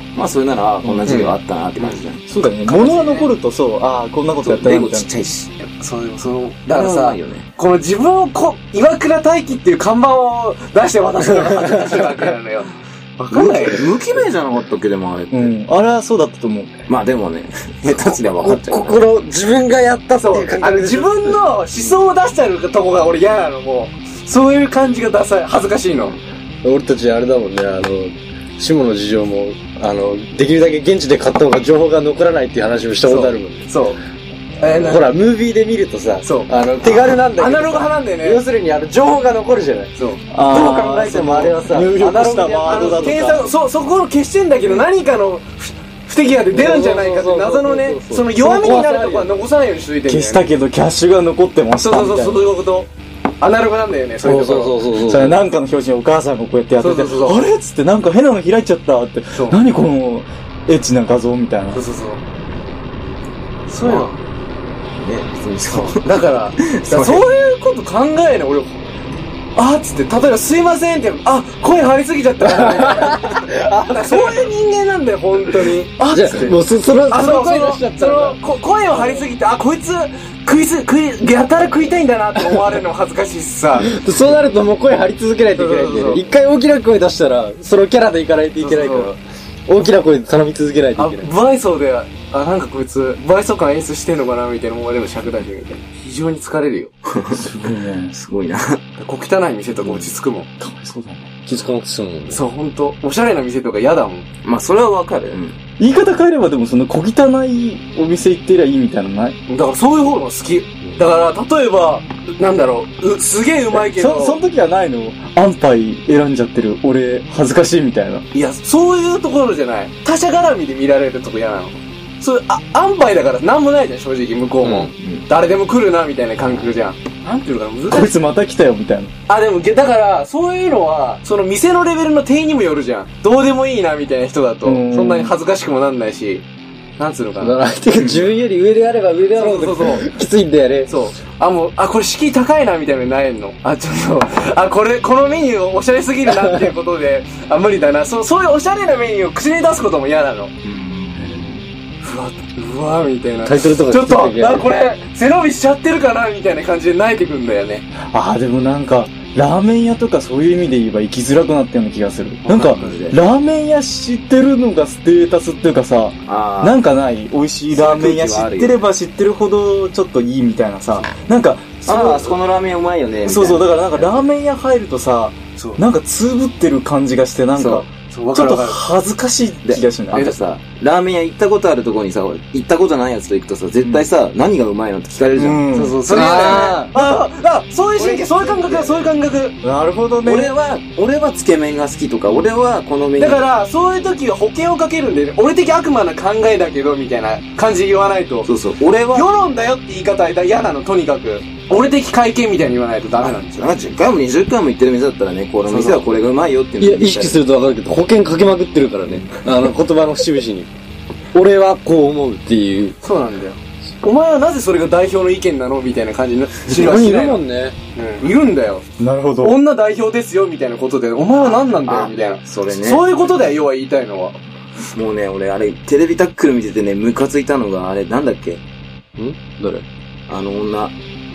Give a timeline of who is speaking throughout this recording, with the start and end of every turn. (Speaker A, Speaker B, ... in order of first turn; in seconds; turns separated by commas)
Speaker A: 0.1-2.2, Speaker B: 0.8-1.1, Speaker C: 1.1-2.0, Speaker B: 2.3-5.1, Speaker C: 2.6-3.3, Speaker A: 4.4-5.5, Speaker C: 5.6-13.9, Speaker A: 6.7-7.5, Speaker B: 13.2-13.8, Speaker A: 13.3-15.5, Speaker B: 15.3-16.7, Speaker A: 16.9-19.0, Speaker D: 18.3-21.4, Speaker C: 20.2-26.2, Speaker D: 26.6-33.7, Speaker C: 33.0-34.0, Speaker C: 34.6-35.1, Speaker D: 34.6-39.9, Speaker C: 36.2-38.4, Speaker B: 40.3-43.4, Speaker D: 40.5-43.3, Speaker C: 42.7-50.5, Speaker D: 46.5-49.4, Speaker B: 50.1-52.5, Speaker C: 51.8-52.9, Speaker C: 53.4-54.9, Speaker D: 54.2-55.4, Speaker B: 55.0-61.8, Speaker C: 56.8-57.4, Speaker C: 61.7-62.2, Speaker C: 63.7-64.1, Speaker A: 63.8-64.2, Speaker A: 64.9-67.2, Speaker C: 65.7-68.8, Speaker C: 69.5-76.5, Speaker D: 72.6-74.3, Speaker D: 76.1-78.4, Speaker B: 76.3-76.5, Speaker C: 77.1-84.1, Speaker D: 83.8-91.3, Speaker C: 85.6-86.2, Speaker C: 88.6-89.1, Speaker C: 91.0-96.9, Speaker A: 97.1-98.8, Speaker B: 97.3-98.1, Speaker C: 99.0-100.5, Speaker B: 100.6-101.3, Speaker D: 101.5-102.4, Speaker C: 102.3-104.2, Speaker A: 104.4-105.6, Speaker B: 105.8-109.4, Speaker C: 109.5-114.4, Speaker B: 113.7-118.2, Speaker C: 118.3-128.1, Speaker D: 124.6-124.9, Speaker A: 125.0-125.2, Speaker B: 127.9-129.1, Speaker C: 129.3-136.4, Speaker B: 134.6-135.3, Speaker C: 137.0-137.6, Speaker D: 137.4-140.9, Speaker C: 139.3-140.1, Speaker C: 140.9-150.5, Speaker A: 150.6-151.6, Speaker B: 151.1-151.7, Speaker C: 152.0-157.8, Speaker D: 153.4-154.7, Speaker B: 158.0-172.2, Speaker A: 162.5-163.2, Speaker C: 162.5-162.9, Speaker A: 166.2-166.8, Speaker A: 167.7-168.7, Speaker A: 171.8-174.2, Speaker C: 171.9-172.3, Speaker B: 173.2-180.3, Speaker A: 177.6-177.8, Speaker C: 178.0-178.8, Speaker A: 179.7-185.6, Speaker C: 180.1-180.4, Speaker B: 185.4-187.3, Speaker C: 185.4-189.6, Speaker D: 186.1-186.9, Speaker A: 187.9-189.1, Speaker B: 189.6-190.5, Speaker A: 190.2-193.4, Speaker C: 193.2-198.5, Speaker A: 198.4-199.3, Speaker C: 199.1-203.8, Speaker A: 203.2-207.4, Speaker C: 205.6-206.1, Speaker D: 206.8-210.7, Speaker D: 211.3-212.9, Speaker C: 213.0-217.4, Speaker D: 216.7-217.8, Speaker C: 217.9-218.8, Speaker B: 219.0-219.6, Speaker C: 219.4-224.4, Speaker A: 221.4-223.1, Speaker A: 224.9-228.6, Speaker D: 229.2-229.8, Speaker A: 230.3-230.9